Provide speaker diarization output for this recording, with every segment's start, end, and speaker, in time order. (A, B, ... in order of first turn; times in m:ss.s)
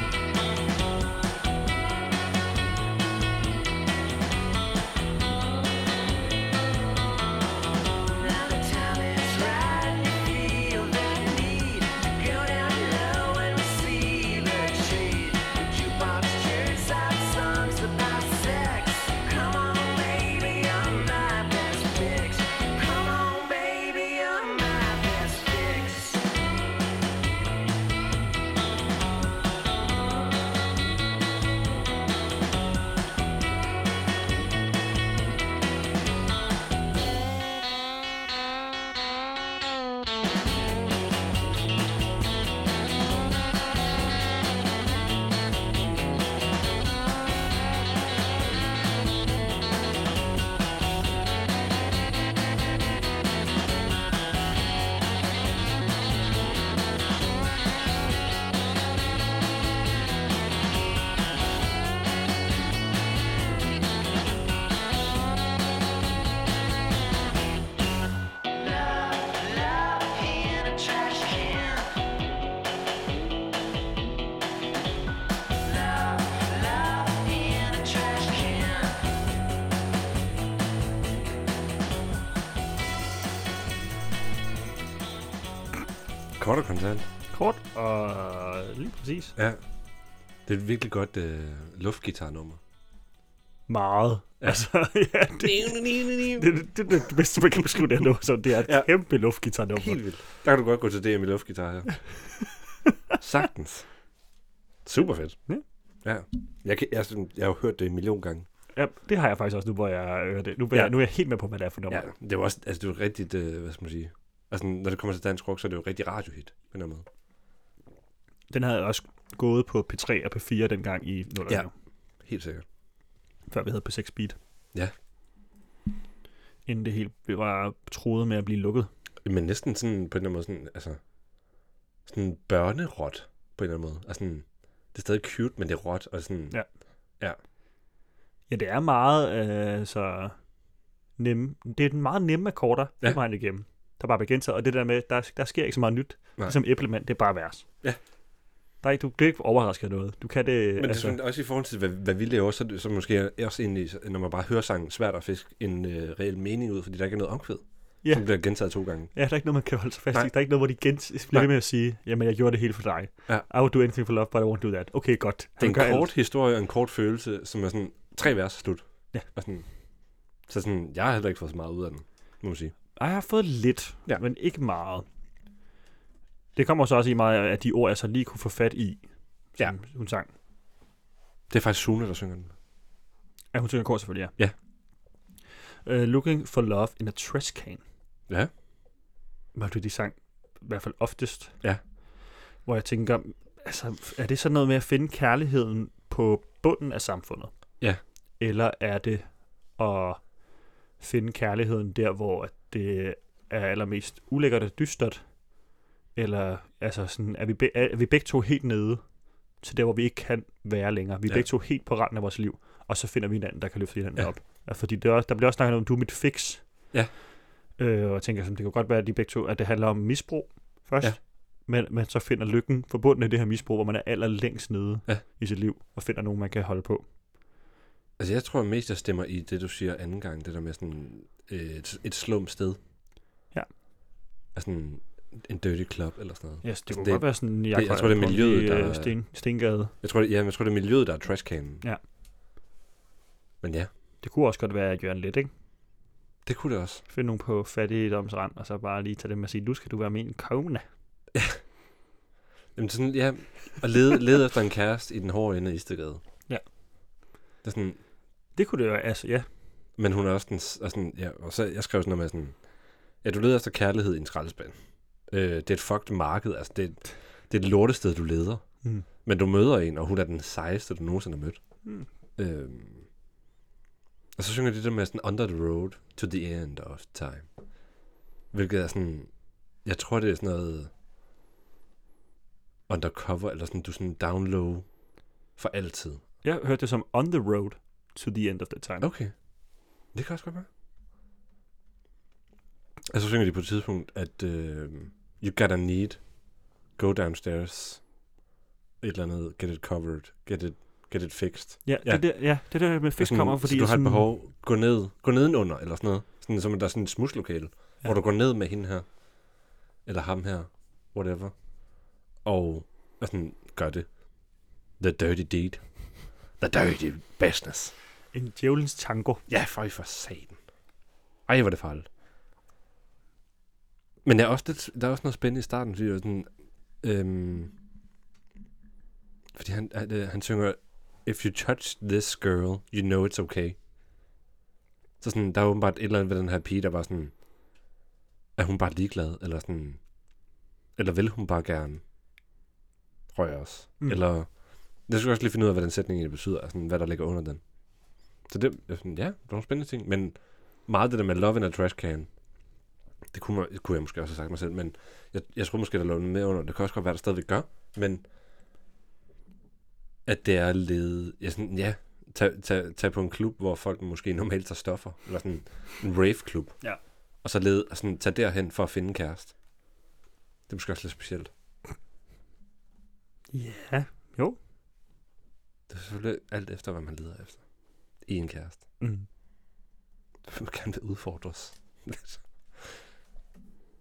0:08.0-0:26.3 A
1:08.5-1:12.0 A
1:15.6-1:19.1 A
1:26.4-1:27.0 B
1:27.3-1:29.4 C
1:30.4-1:32.6 B
1:33.7-1:40.0 C
1:34.4-1:34.7 B
1:35.4-1:36.6 B
1:38.6-1:38.9 B
1:39.8-1:42.0 B
1:43.2-1:43.9 B
1:44.8-1:45.4 B
1:46.0-1:48.4 B
1:48.7-1:52.1 C
1:51.9-1:57.0 B
1:58.5-2:01.7 C
2:02.2-2:02.6 B
2:03.5-2:04.4 C
2:06.6-2:08.9 C
2:09.2-2:11.0 B
2:12.0-2:16.6 B
2:18.5-2:20.4 C
2:21.2-2:27.6 C
2:28.8-2:31.2 C
2:30.8-2:39.1 B
2:38.0-2:38.4 C
2:39.1-2:46.1 C
2:45.6-2:49.6 B
2:50.5-2:52.7 B
2:53.0-2:55.0 C
2:56.5-3:00.3 C
3:01.5-3:02.5 B
3:03.5-3:04.3 C
3:05.8-3:07.8 C
3:09.5-3:11.6 C
3:12.6-3:17.5 C
3:18.4-3:20.4 C
3:21.0-3:25.6 C
3:26.1-3:36.9 C
3:37.8-3:47.0 C
3:48.2-3:52.8 B
3:54.5-3:59.1 B
3:56.6-3:59.9 C
4:00.0-4:01.8 B
4:03.6-4:03.9 B
4:04.2-4:05.5 C
4:06.4-4:07.0 B
4:07.1-4:10.8 C
4:11.3-4:11.6 B
4:12.7-4:16.2 B
4:17.6-4:18.0 B
4:18.6-4:19.5 C
4:20.0-4:22.6 B
4:23.2-4:24.8 B
4:25.3-4:28.6 B
4:29.2-4:31.6 B
4:32.4-4:33.0 B
4:34.4-4:37.5 B
4:38.5-4:39.3 B
4:39.8-4:40.9 B
4:42.9-4:44.9 B
4:45.6-4:46.2 B
4:46.4-4:49.1 C
4:49.0-4:49.3 B
4:50.1-4:50.7 B
4:53.1-4:56.3 B
4:56.9-4:58.0 B
4:59.0-5:02.5 B
5:01.8-5:04.3 C
5:03.2-5:09.2 B
5:10.0-5:11.6 B
5:12.4-5:14.2 B
5:15.0-5:15.8 B
5:16.6-5:17.9 B
5:18.3-5:19.4 C
5:19.5-5:20.6 B
5:21.4-5:22.0 B
5:24.2-5:26.5 B
5:27.0-5:27.7 B
5:29.5-5:33.8 B
5:35.2-5:37.3 B
5:38.6-5:40.0 B
5:41.0-5:42.0 B
5:43.3-5:47.6 B
5:48.4-5:52.3 B
5:53.3-5:58.2 B
6:00.2-6:06.8 B
6:07.4-6:09.5 B
6:10.7-6:11.5 B
6:13.5-6:14.6 C
6:15.9-6:17.6 B
6:18.2-6:18.8 B
6:19.0-6:19.3 C
6:20.4-6:23.0 B